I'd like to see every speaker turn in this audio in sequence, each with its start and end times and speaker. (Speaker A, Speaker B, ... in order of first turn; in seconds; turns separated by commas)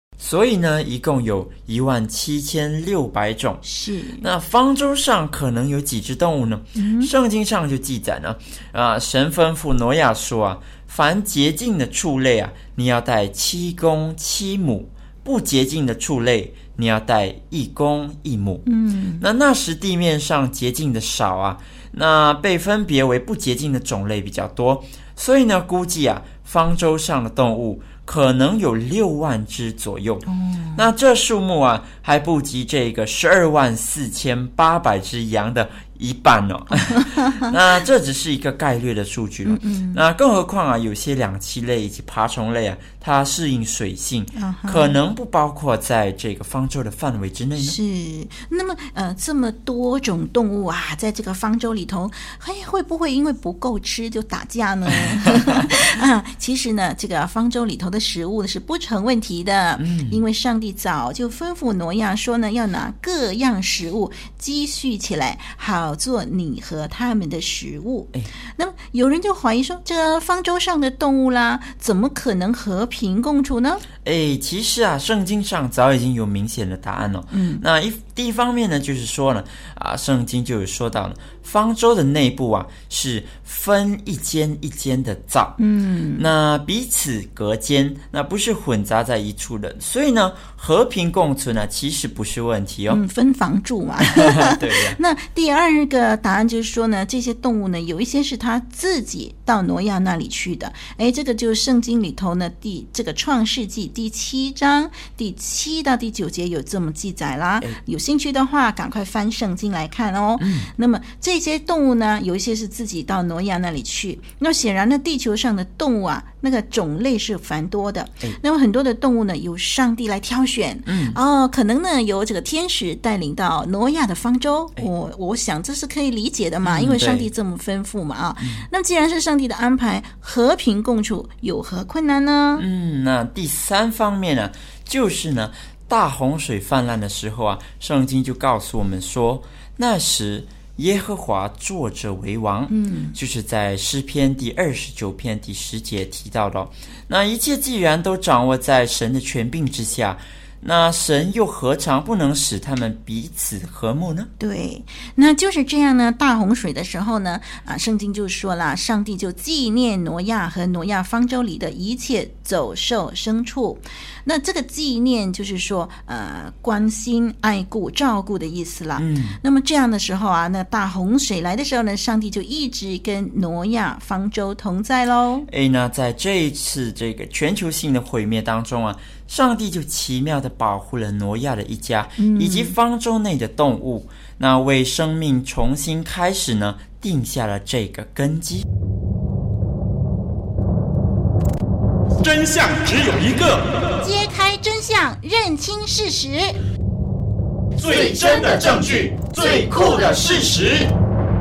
Speaker A: 0.2-3.6, Speaker B: 3.6-4.3, Speaker A: 4.2-18.6, Speaker B: 6.8-7.1, Speaker B: 18.7-19.2, Speaker A: 19.2-47.8, Speaker B: 30.3-30.9, Speaker B: 37.0-37.5, Speaker B: 39.5-40.0, Speaker B: 44.4-45.0, Speaker B: 47.6-73.8, Speaker A: 59.8-60.2, Speaker A: 74.0-85.6, Speaker B: 77.3-77.6, Speaker B: 85.6-86.2, Speaker A: 86.2-93.0, Speaker B: 92.9-132.7, Speaker A: 94.0-95.0, Speaker A: 110.4-110.7, Speaker A: 120.9-121.2, Speaker A: 126.6-127.3, Speaker A: 128.4-128.7, Speaker A: 132.6-154.3, Speaker B: 142.7-143.2, Speaker B: 154.4-175.5, Speaker A: 169.0-169.4, Speaker A: 175.5-188.7, Speaker B: 182.2-182.8, Speaker C: 192.2-193.8, Speaker B: 194.0-196.6, Speaker C: 197.8-200.9